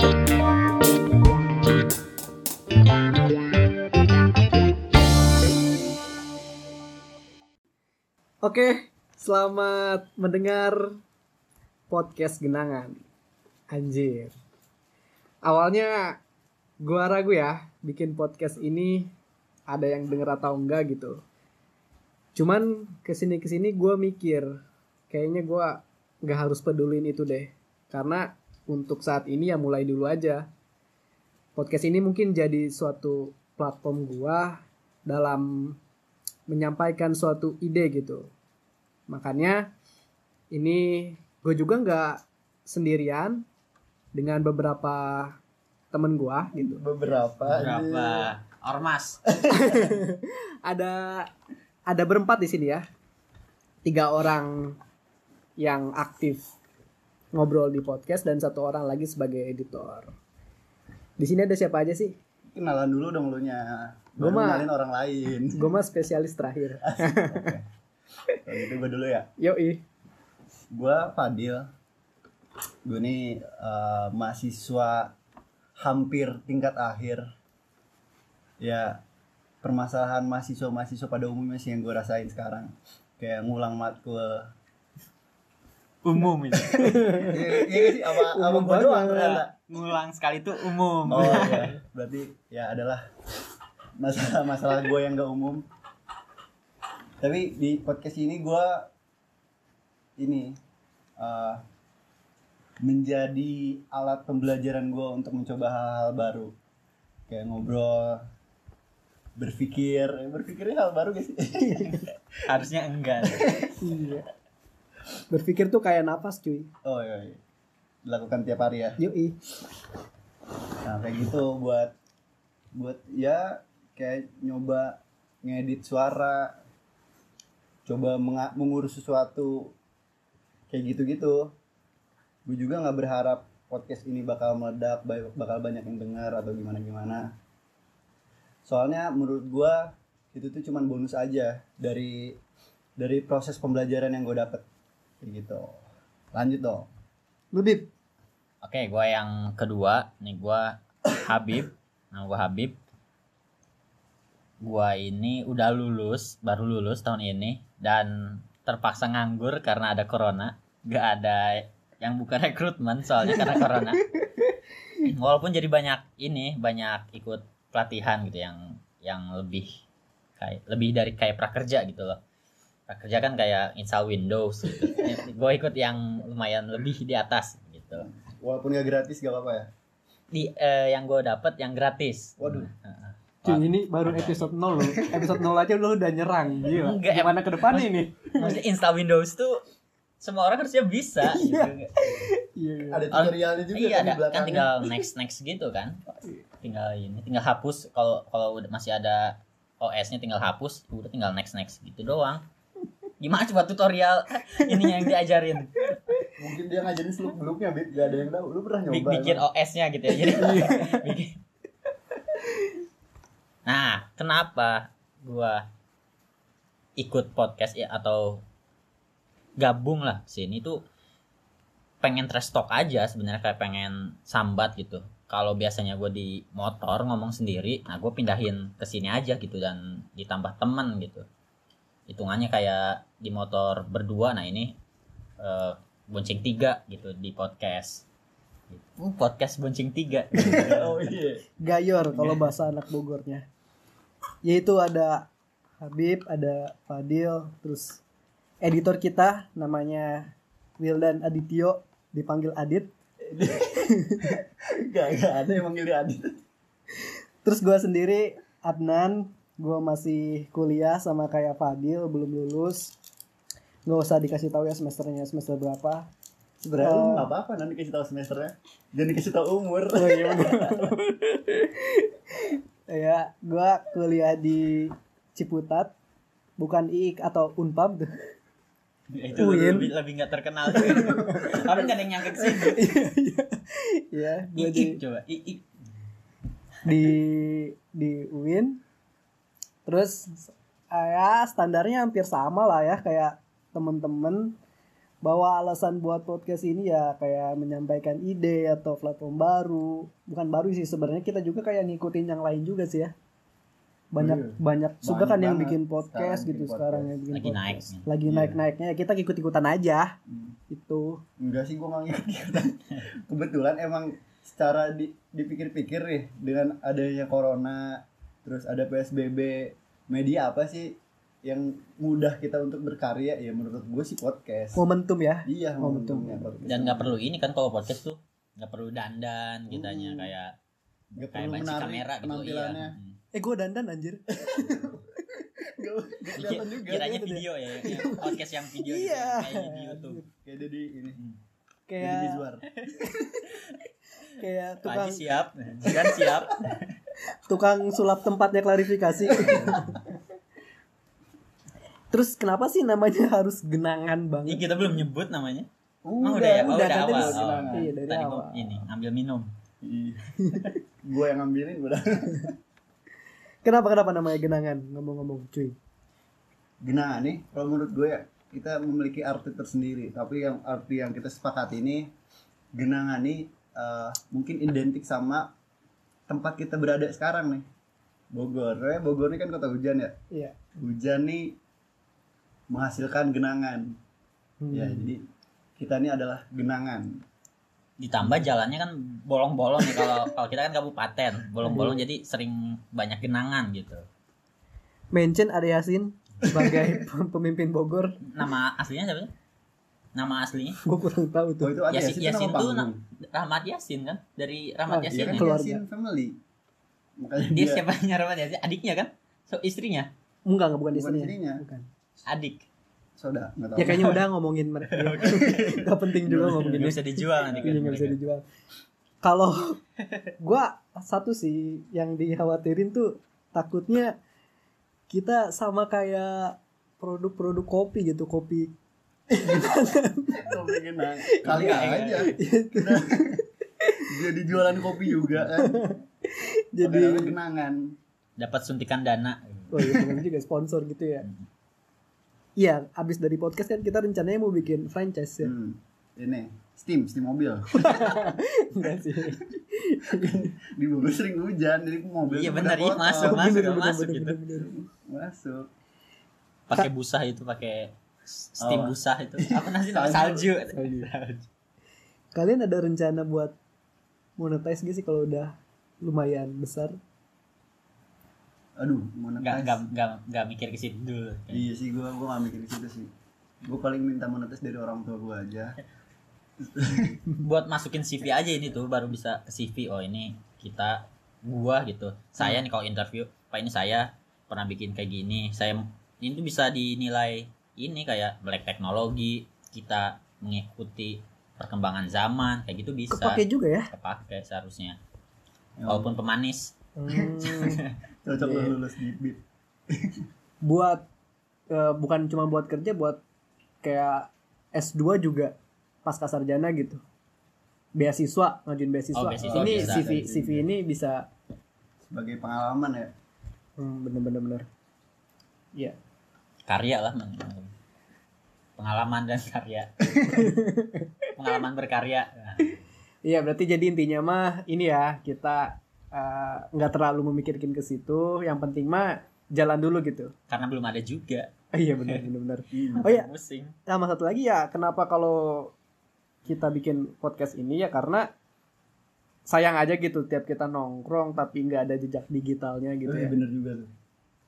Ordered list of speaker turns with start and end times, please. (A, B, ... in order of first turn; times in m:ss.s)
0:08.4-0:11.0 A
0:11.9-0:13.0 A
0:13.7-0:14.3 A
0:15.4-0:16.2 A
0:16.8-0:19.1 A
0:19.7-0:21.2 A
0:22.3-0:30.5 A
0:31.6-0:35.8 A
0:36.5-0:38.3 A
0:39.1-0:39.7 A
0:40.5-0:43.4 A
0:44.1-0:45.4 A
0:45.9-0:46.8 A
0:46.6-0:48.3 B
0:47.4-0:49.2 C
0:49.4-0:51.3 A
0:51.9-0:52.8 A
0:53.8-0:54.8 A
0:55.6-0:56.5 A
0:57.3-1:00.1 A
1:01.2-1:02.2 A
1:02.5-1:05.6 B
1:04.2-1:04.7 A
1:05.5-1:07.5 A
1:06.8-1:07.6 B
1:08.4-1:09.3 B
1:09.4-1:09.8 A
1:10.7-1:11.7 B
1:12.8-1:15.1 B
1:15.8-1:17.2 B
1:18.6-1:19.0 B
1:19.6-1:24.5 B
1:26.0-1:27.3 C
1:26.7-1:27.4 A
1:27.2-1:29.5 B
1:28.1-1:29.4 A
1:29.1-1:31.8 C
1:31.1-1:33.0 B
1:31.2-1:31.6 A
1:34.0-1:35.6 B
1:37.2-1:38.9 B
1:40.2-1:40.6 B
1:41.2-1:41.6 B
1:42.8-1:46.5 B
1:47.3-1:48.2 B
1:49.4-1:52.1 B
1:52.5-1:53.6 C
1:53.8-1:54.2 A
1:55.3-1:56.7 A
1:56.8-1:57.4 B
1:58.0-1:59.0 B
1:59.0-1:59.4 A
2:00.8-2:01.9 B
2:02.7-2:06.6 B
2:07.8-2:09.7 B
2:10.7-2:11.5 B
2:12.5-2:17.3 B
2:18.7-2:22.4 B
2:23.0-2:24.6 B
2:25.2-2:25.8 B
2:26.3-2:26.9 B
2:27.5-2:27.9 A
2:28.6-2:32.8 C
2:34.6-2:44.1 C
2:45.0-2:49.7 C
2:50.4-2:52.2 C
2:52.9-2:58.1 C
2:58.0-2:59.7 B
3:00.3-3:05.3 C
3:02.4-3:02.7 B
3:03.4-3:08.6 A
3:06.7-3:09.6 C
3:10.2-3:12.1 C
3:11.3-3:13.0 A
3:12.9-3:14.9 B
3:13.1-3:16.0 C
3:16.6-3:22.4 C
3:23.2-3:26.0 C
3:26.4-3:29.4 B
3:28.9-3:31.4 C
3:30.2-3:31.1 A
3:33.6-3:35.6 C
3:37.0-3:38.4 C
3:39.6-3:40.8 C
3:42.0-3:51.2 C
3:52.1-3:54.7 C
3:55.4-3:58.0 C
3:58.7-4:01.0 C
4:00.4-4:01.4 B
4:01.6-4:03.4 A
4:02.1-4:02.5 C
4:04.4-4:05.3 A
4:05.8-4:08.0 A
4:08.6-4:12.9 A
4:13.3-4:16.3 B
4:17.4-4:22.9 A
4:23.8-4:26.1 A
4:26.6-4:30.9 B
4:26.8-4:27.3 A
4:29.9-4:32.0 A
4:32.9-4:35.9 A
4:36.6-4:38.1 A
4:39.1-4:42.9 C
4:39.3-4:39.9 A
4:40.8-4:41.8 A
4:42.4-4:45.0 A
4:44.5-4:45.6 C
4:46.8-4:48.8 A
4:49.8-4:54.5 A
4:55.2-5:03.1 A
5:04.1-5:10.1 A
5:04.2-5:07.1 B
5:07.3-5:08.1 C
5:08.3-5:08.6 B
5:10.3-5:10.6 B
5:10.7-5:11.2 A
5:11.4-5:24.8 B
5:24.8-5:26.6 A
5:25.4-5:27.2 B
5:26.7-5:30.5 C
5:29.7-5:30.3 B
5:31.2-5:33.0 B
5:31.3-5:33.2 C
5:33.3-5:35.0 A
5:34.4-5:35.0 B
5:35.8-5:37.1 B
5:36.4-5:40.2 C
5:36.9-5:40.2 A
5:40.4-5:41.2 B
5:41.9-5:42.4 A
5:42.0-5:42.6 B
5:43.0-5:43.4 A
5:44.4-5:45.2 A
5:44.8-5:46.8 C
5:47.4-5:50.0 A
5:49.3-5:49.9 B
5:52.1-5:55.0 A
5:54.4-5:55.7 C
5:56.0-5:57.9 B
5:56.2-5:59.5 C
5:56.3-5:58.8 A
5:59.8-6:02.5 B
6:03.6-6:05.8 A
6:06.8-6:12.1 B
6:12.7-6:15.5 B
6:16.3-6:17.7 B
6:18.3-6:20.1 B
6:20.3-6:20.6 A
6:20.8-6:21.6 B
6:22.7-6:24.0 B
6:24.6-6:25.1 A
6:24.7-6:25.2 B
6:25.8-6:27.2 B
6:28.0-6:34.0 C
6:28.2-6:28.5 B
6:31.6-6:32.0 A
6:35.1-6:38.2 A
6:38.3-6:39.3 C
6:40.1-6:40.8 C
6:40.8-6:41.7 A
6:41.6-6:43.0 B
6:41.9-6:45.5 C
6:44.9-6:45.8 A
6:45.1-6:46.4 B
6:47.2-6:47.8 B
6:47.5-6:50.1 C
6:50.4-6:51.9 A
6:50.9-6:51.6 B
6:52.3-6:52.6 C
6:53.2-6:54.2 B
6:53.8-6:57.0 A
6:53.9-6:54.2 C
6:54.9-6:57.8 B
6:56.6-6:58.2 C
6:57.6-6:58.4 A
6:59.2-6:59.8 A
7:00.4-7:04.1 A
7:05.1-7:08.7 A
7:09.3-7:10.6 A
7:10.3-7:13.4 B
7:11.3-7:13.9 A
7:11.4-7:12.3 C
7:14.1-7:16.0 B
7:15.7-7:17.3 A
7:16.8-7:18.0 B
7:18.4-7:19.7 C
7:19.7-7:21.2 A
7:21.2-7:21.5 C
7:22.6-7:25.5 A
7:25.4-7:28.2 B
7:27.7-7:30.4 A
7:30.1-7:33.5 B
7:32.3-7:34.4 C
7:33.2-7:34.7 A
7:34.5-7:35.7 B
7:36.7-7:41.5 C
7:38.6-7:40.5 B
7:40.7-7:41.1 A
7:42.3-7:43.6 A
7:44.4-7:47.0 A
7:48.8-7:49.8 B
7:49.4-7:51.6 C
7:51.5-7:53.1 B
7:53.6-7:55.8 B
7:56.6-7:57.2 B
7:57.4-8:15.0 C
8:13.1-8:13.9 A
8:15.8-8:16.1 B
8:15.9-8:16.7 C
8:17.0-8:17.8 A
8:17.1-8:17.6 B
8:17.4-8:17.9 C
8:18.2-8:19.4 B
8:18.4-8:18.7 A
8:20.6-8:21.0 A
8:21.7-8:23.2 A
8:23.8-8:27.0 A
8:27.9-8:31.3 A
8:29.1-8:30.1 C
8:29.4-8:30.7 B
8:32.1-8:33.1 B
8:33.8-8:34.6 A
8:36.7-8:37.7 C
8:38.8-8:40.5 C
8:40.2-8:41.1 A
8:41.4-8:42.7 C
8:43.2-8:50.3 A
8:50.5-8:51.5 C
8:51.7-8:53.3 A
8:52.7-8:53.1 B
8:52.9-8:53.7 C
8:53.8-8:55.7 A
8:56.4-8:58.3 A
8:59.5-9:03.4 A
9:03.0-9:03.9 B